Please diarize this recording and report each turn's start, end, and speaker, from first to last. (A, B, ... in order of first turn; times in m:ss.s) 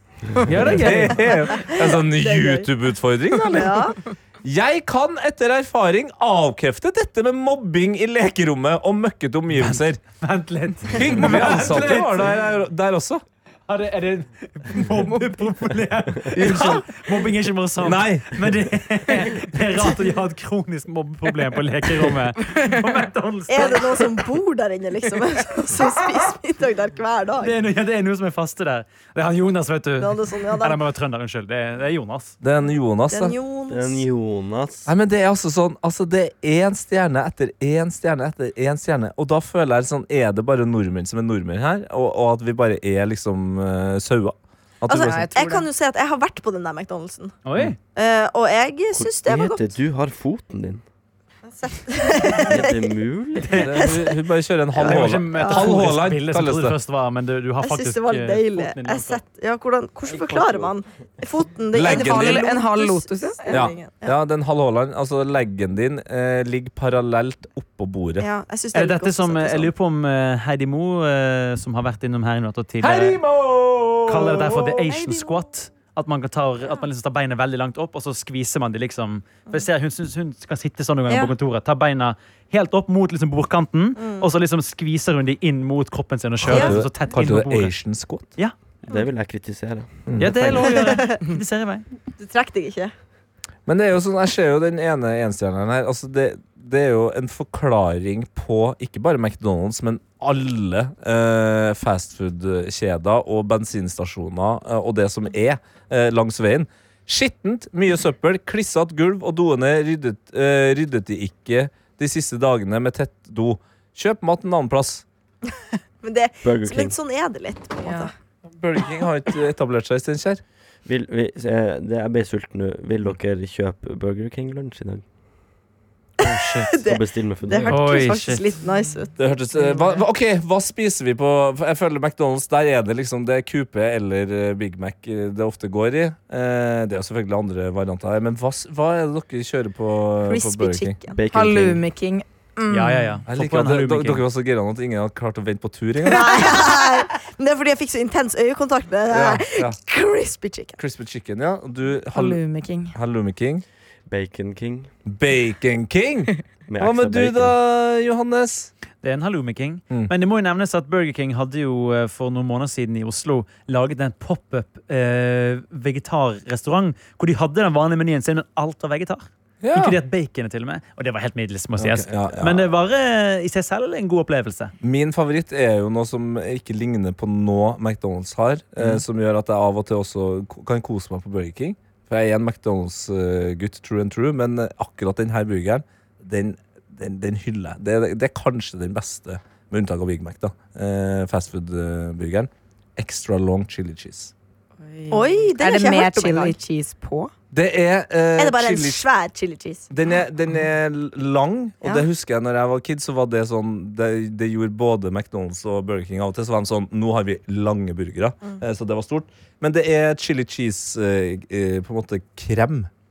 0:00.4-0:01.3 A
0:00.6-0:10.0 B
0:01.5-0:02.7 C
0:03.5-0:04.0 C
0:09.6-0:12.3 A
0:10.8-0:13.2 B
0:13.7-0:24.0 A
0:16.3-0:17.0 B
0:17.8-0:18.4 B
0:23.5-0:27.6 C
0:27.4-0:32.4 A
0:30.0-0:30.8 C
0:32.4-0:33.4 B
0:33.1-0:34.0 C
0:33.7-0:34.9 D
0:34.9-0:45.3 B
0:44.9-0:47.4 C
0:45.0-0:45.7 E
0:47.5-0:47.8 A
0:48.0-0:49.7 C
0:49.0-0:50.8 D
0:51.5-0:53.0 C
0:52.4-0:53.7 D
0:53.6-0:56.8 B
0:53.8-0:54.2 C
0:54.8-0:59.2 A
0:54.8-0:55.7 C
0:57.6-1:04.2 C
1:00.1-1:00.7 D
1:01.7-1:02.5 B
1:01.8-1:03.6 E
1:03.5-1:08.3 B
1:08.2-1:09.7 C
1:08.7-1:13.2 A
1:12.8-1:14.8 B
1:14.1-1:27.8 A
1:14.9-1:15.4 C
1:24.0-1:24.3 C
1:26.4-1:28.3 B
1:26.5-1:26.8 C
1:28.9-1:30.5 D
1:30.1-1:30.6 B
1:30.2-1:31.8 A
1:30.7-1:31.2 C
1:32.2-1:32.9 C
1:33.7-1:55.0 B
1:56.0-1:58.1 C
1:56.4-1:57.0 D
1:57.8-1:58.1 E
1:58.5-2:00.4 B
2:00.9-2:05.0 D
2:06.2-2:06.7 A
2:06.2-2:09.1 C
2:06.8-2:07.8 D
2:07.7-2:08.4 A
2:09.2-2:21.0 B
2:20.2-2:21.2 C
2:21.1-2:21.8 D
2:21.3-2:23.2 E
2:22.7-2:24.2 A
2:23.3-2:26.6 B
2:26.1-2:30.8 C
2:26.3-2:26.7 E
2:29.1-2:29.8 B
2:30.8-2:33.6 B
2:32.1-2:32.9 E
2:34.1-2:34.9 D
2:35.1-2:38.7 B
2:36.7-2:37.5 D
2:39.0-2:54.7 A
2:49.6-2:50.0 B
2:51.9-2:52.7 B
2:54.8-3:14.3 B
3:14.8-3:17.3 E
3:15.1-3:16.6 C
3:17.5-3:19.0 B
3:18.4-3:19.9 C
3:19.9-3:32.9 B